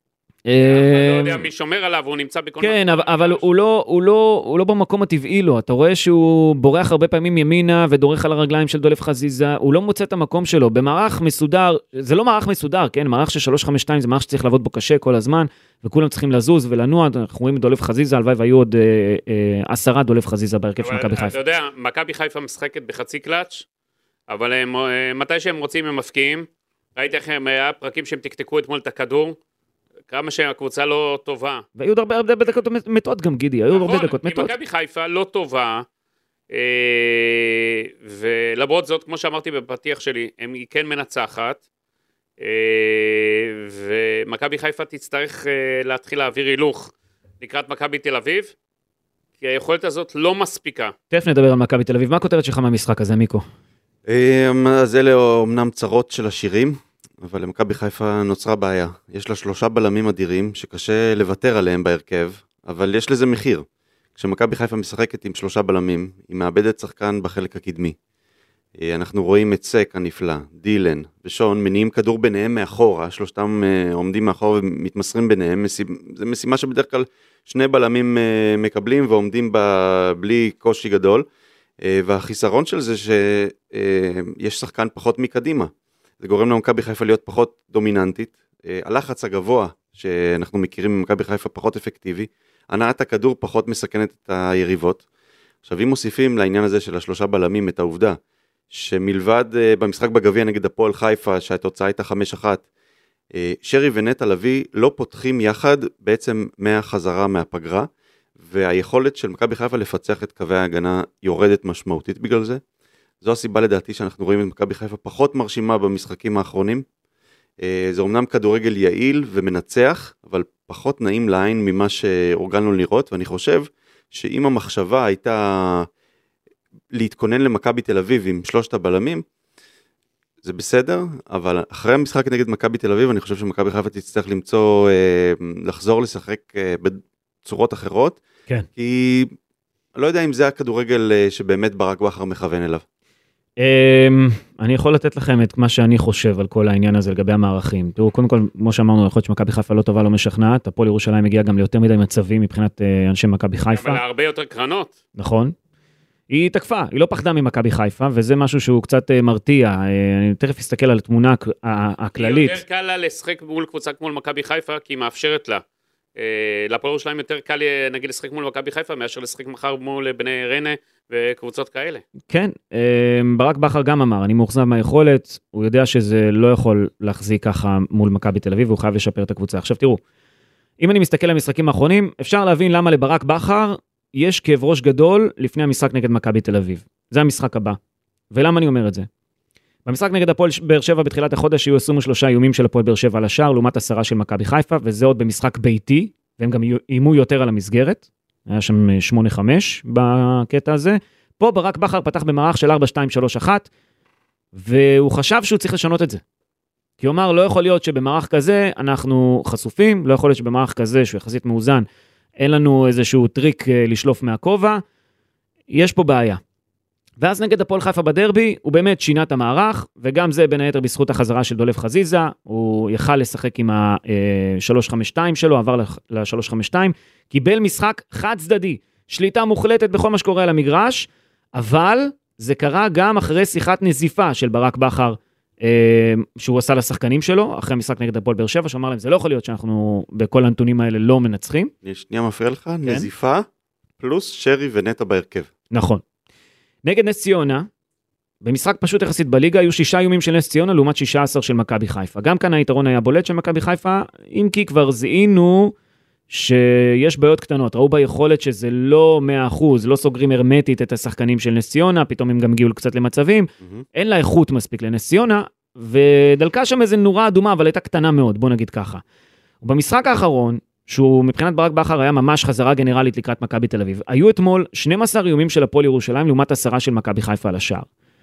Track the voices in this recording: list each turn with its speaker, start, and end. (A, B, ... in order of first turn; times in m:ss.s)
0:00.4-0:01.5 A
0:00.6-0:03.4 B
0:02.6-0:21.4 A
0:20.8-0:23.6 B
0:24.3-0:29.4 B
0:30.1-0:31.6 B
0:31.8-0:34.5 A
0:33.7-0:35.8 B
0:36.5-0:41.6 B
0:42.4-0:48.5 B
0:49.4-0:50.9 B
0:51.1-0:53.4 A
0:54.1-1:08.0 C
1:08.8-1:21.2 C
1:21.8-1:35.0 C
1:35.6-1:38.2 C
1:38.7-1:42.6 C
1:43.3-1:47.9 C
1:48.4-1:52.6 C
1:53.2-1:56.8 C
1:57.6-2:05.9 C
2:06.9-2:09.2 C
2:10.4-2:18.2 C
2:18.8-2:19.3 C
2:20.0-2:22.8 C
2:23.6-2:34.0 A
2:33.7-2:34.9 B
2:35.2-2:35.5 A
2:36.3-2:42.6 A
2:42.2-2:45.6 B
2:46.2-2:52.0 B
2:52.3-3:00.0 A
3:00.8-3:07.8 A
3:08.3-3:09.1 A
3:09.8-3:23.7 A
3:24.5-3:26.2 A
3:27.0-3:31.8 A
3:32.4-3:34.8 A
3:35.7-3:36.4 A
3:37.2-4:01.7 A
4:01.8-4:03.4 C
4:04.0-4:05.5 C
4:05.7-4:06.0 A
4:06.8-4:07.7 A
4:08.4-4:15.7 A
4:16.3-4:29.0 A
4:29.6-4:37.9 A